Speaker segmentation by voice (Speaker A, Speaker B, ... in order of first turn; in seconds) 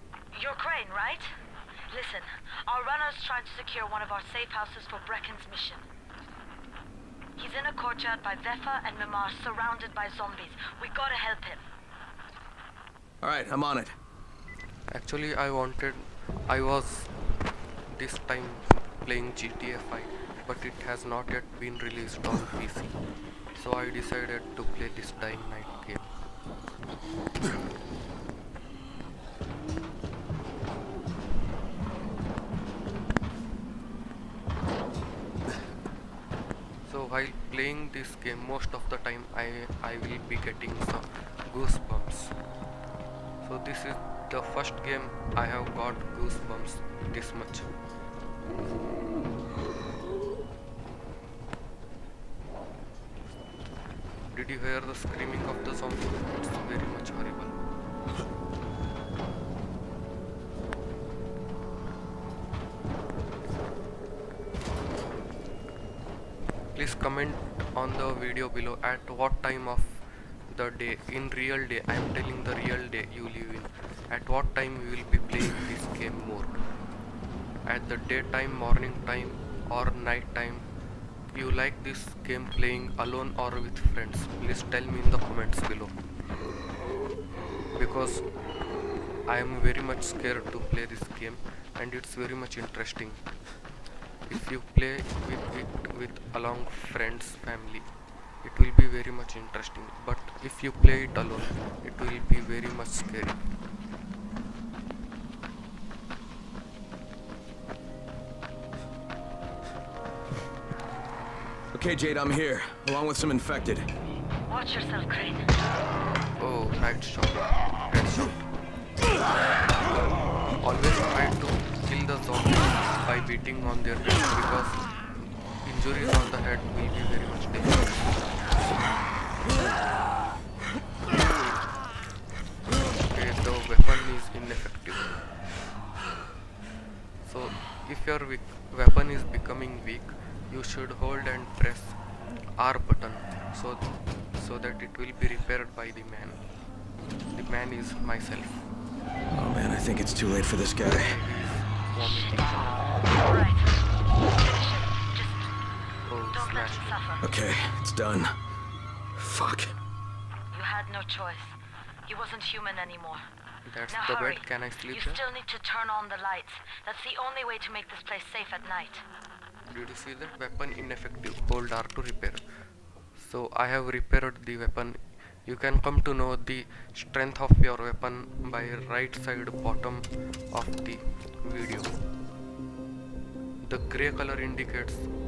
Speaker A: 0.3-1.3, 1.9-5.8, 7.4-11.6, 114.5-115.5, 152.0-153.8, 154.3-155.4, 156.3-157.2, 160.5-161.6, 162.1-163.2, 163.9-169.0
Speaker B: 13.2-13.9, 111.7-113.9, 149.3-151.2, 157.2-158.3, 159.2-159.8
Speaker C: 14.9-17.1, 17.9-22.9, 23.6-26.1, 36.9-42.3, 43.4-47.7, 54.3-57.6, 66.8-76.6, 77.7-80.7, 81.3-86.0, 87.8-88.2, 89.3-93.2, 94.3-97.9, 98.4-103.4, 116.4-118.4, 120.6-128.0, 133.0-135.2, 137.2-142.0, 142.6-146.4, 147.3-148.7, 150.8-152.9, 156.1-157.1, 163.7-165.2, 169.7-172.4, 173.2-181.9, 183.6-185.1